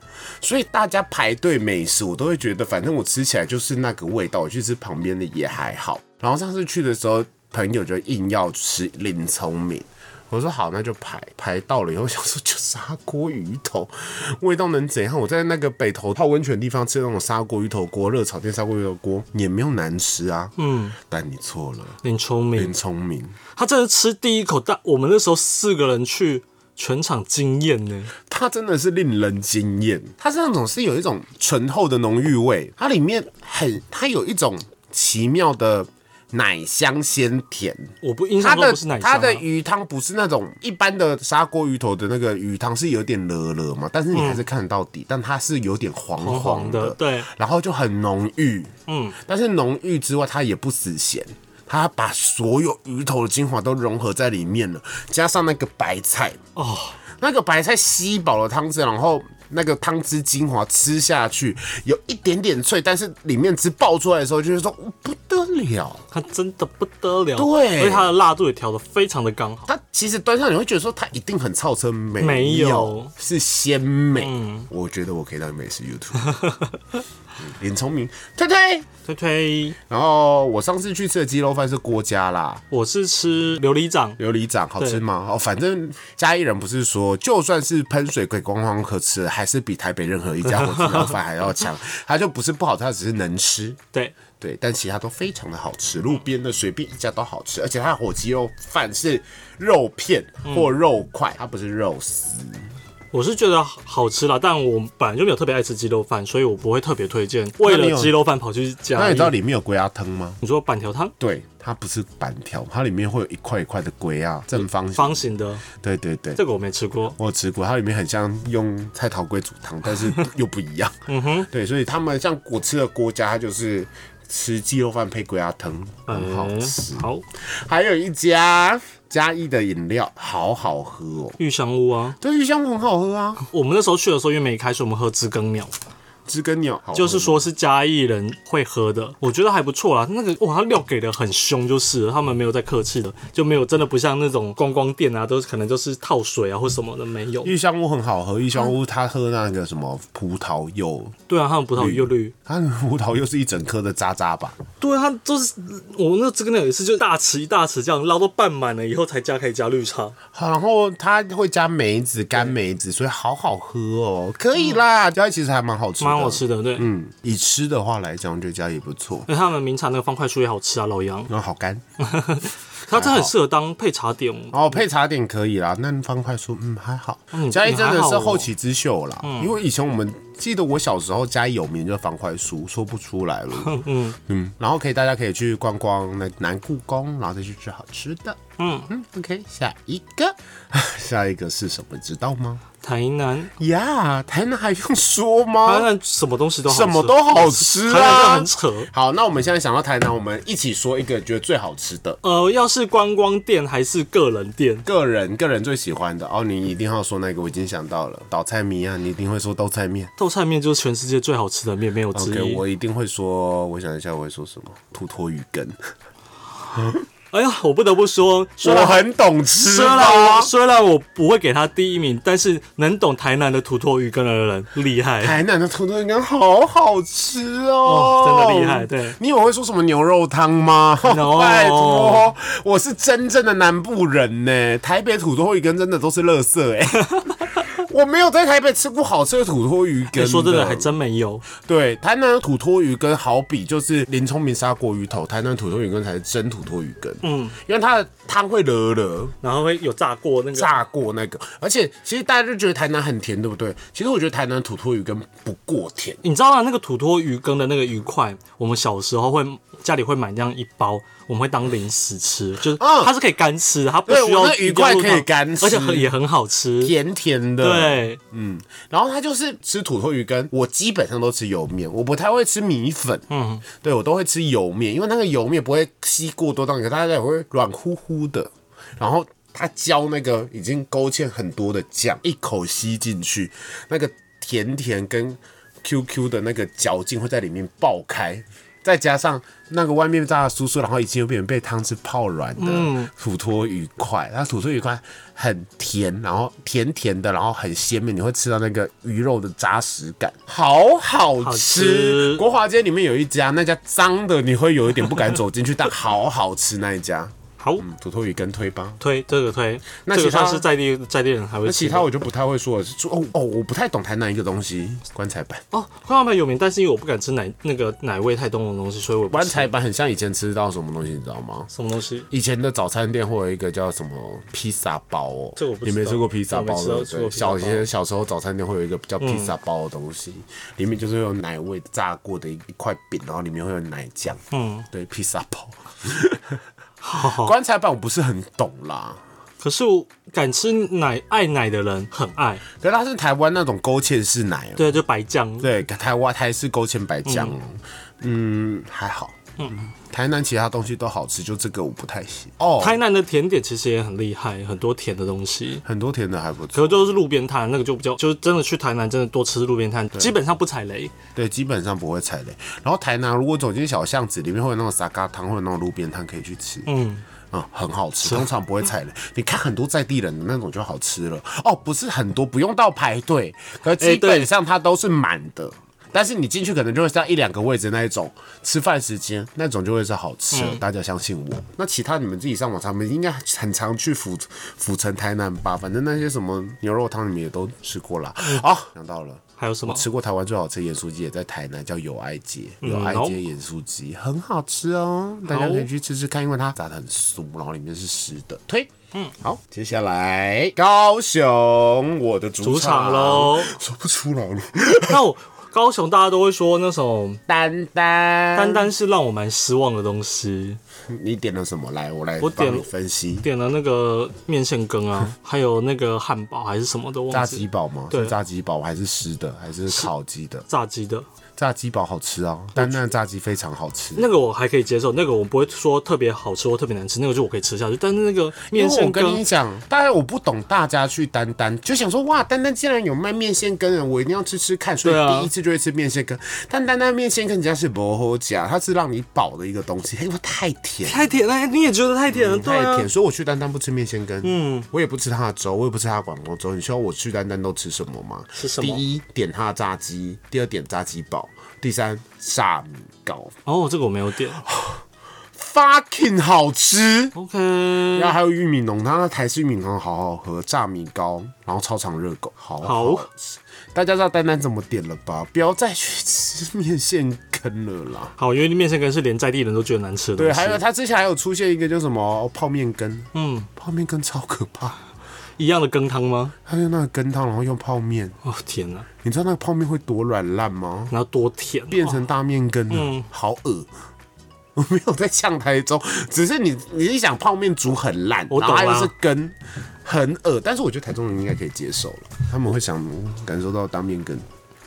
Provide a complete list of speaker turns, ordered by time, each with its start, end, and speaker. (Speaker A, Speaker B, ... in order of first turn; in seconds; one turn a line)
Speaker A: 0.4-22.0
Speaker B: 20.6-20.9
Speaker B: 22.0-22.7
Speaker A: 22.5-23.4
Speaker B: 23.6-28.1
Speaker A: 28.2-56.4
Speaker B: 38.0-39.4
Speaker B: 44.1-44.4
Speaker B: 46.2-47.3
Speaker B: 48.9-49.2
Speaker B: 56.5-57.0
Speaker A: 57.2-66.0
Speaker B: 66.1-69.7
Speaker A: 67.3-68.1
Speaker A: 69.7-76.4
Speaker B: 72.2-73.1
Speaker B: 74.2-74.7
Speaker B: 76.2-77.0
Speaker A: 77.4-78.9
Speaker B: 79.0-79.8
Speaker A: 79.9-82.6
Speaker B: 82.7-84.2
Speaker A: 84.2-93.8
Speaker B: 90.5-91.1
Speaker A: 94.4-102.7
Speaker B: 100.5-100.7
Speaker B: 103.1-109.3
Speaker A: 107.6-108.2
Speaker A: 108.9-110.4
Speaker B: 110.4-111.1
Speaker A: 111.2-116.4
Speaker B: 114.6-115.6
Speaker B: 116.3-117.2
Speaker A: 117.2-131.4
Speaker B: 121.1-121.5
Speaker B: 126.1-127.2
Speaker B: 131.4-132.2
Speaker A: 132.2-133.4
Speaker B: 133.5-135.7
Speaker A: 136.3-137.5
Speaker B: 136.9-147.5
Speaker A: 147.4-151.1
Speaker B: 151.3-152.3
Speaker A: 151.8-154.6
Speaker B: 154.8-160.1
Speaker A: 160.3-169.3
Speaker B: 166.0-166.9
Speaker B: 169.3-171.3
Speaker A: 171.3-171.8
Speaker B: 172.0-174.8
Speaker A: 172.9-173.3
Speaker A: 174.5-192.6
Speaker B: 177.3-178.5
Speaker B: 179.2-179.5
Speaker B: 183.6-184.2
Speaker B: 188.6-188.9
Speaker B: 192.8-193.5
Speaker A: 193.6-195.9
Speaker B: 195.6-198.9
Speaker A: 196.7-202.2
Speaker B: 202.2-204.8
Speaker A: 204.8-210.1
Speaker B: 210.2-212.6
Speaker A: 212.1-215.8
Speaker A: 216.7-217.0
Speaker B: 217.3-219.0
Speaker A: 218.6-220.5
Speaker B: 219.6-225.4
Speaker A: 225.2-240.9
Speaker B: 227.8-229.2
Speaker B: 231.0-232.3
Speaker B: 240.1-241.4
Speaker A: 241.5-249.3
Speaker B: 247.2-247.6
Speaker B: 249.4-250.8
Speaker A: 250.5-256.2
Speaker B: 256.2-266.9
Speaker A: 262.8-263.1
Speaker A: 264.1-266.1
Speaker A: 266.8-309.0
Speaker B: 267.6-268.2
Speaker B: 273.3-273.6
Speaker B: 292.6-293.1
Speaker B: 301.4-302.4
Speaker B: 307.6-307.9
Speaker B: 309.0-312.1
Speaker A: 310.0-310.7
Speaker A: 311.6-315.6
Speaker B: 315.7-319.7
Speaker A: 319.3-321.7
Speaker B: 321.7-322.3
Speaker A: 322.3-336.6
Speaker B: 325.6-327.9
Speaker B: 329.2-329.5
Speaker B: 334.5-334.9
Speaker B: 337.0-337.5
Speaker A: 337.1-339.2
Speaker B: 339.6-342.6
Speaker A: 342.8-345.0
Speaker B: 344.8-345.7
Speaker A: 345.6-349.4
Speaker B: 347.2-347.5
Speaker B: 349.6-349.8
Speaker A: 349.9-353.0
Speaker B: 352.8-355.8
Speaker A: 355.8-357.0
Speaker B: 356.7-361.1
Speaker A: 361.3-366.9
Speaker B: 366.9-367.2
Speaker A: 367.5-405.2
Speaker B: 374.0-374.5
Speaker B: 380.5-380.8
Speaker B: 389.6-390.0
Speaker B: 392.8-393.4
Speaker B: 395.5-395.9
Speaker B: 402.6-403.7
Speaker B: 405.1-407.4
Speaker A: 407.5-408.9
Speaker B: 408.5-410.8
Speaker A: 411.1-413.5
Speaker B: 412.4-412.9
Speaker B: 413.4-418.3
Speaker A: 417.3-420.7
Speaker B: 420.7-421.2
Speaker A: 421.6-424.3
Speaker B: 422.8-423.0
Speaker B: 424.1-429.4
Speaker A: 428.7-441.4
Speaker B: 435.0-435.5
Speaker B: 441.1-443.1
Speaker A: 442.3-453.5
Speaker B: 444.4-444.9
Speaker B: 448.6-449.0
Speaker B: 453.6-454.6
Speaker A: 454.6-455.0
Speaker A: 455.5-457.3
Speaker B: 457.3-458.3
Speaker A: 458.1-468.3
Speaker B: 462.8-463.3
Speaker B: 468.4-470.8
Speaker A: 470.4-475.0
Speaker B: 473.3-473.7
Speaker B: 475.6-476.5
Speaker A: 476.6-478.4
Speaker B: 478.4-479.1
Speaker A: 479.2-481.1
Speaker B: 481.1-482.2
Speaker A: 481.9-483.9
Speaker B: 482.9-483.2
Speaker A: 484.8-494.4
Speaker B: 488.5-489.1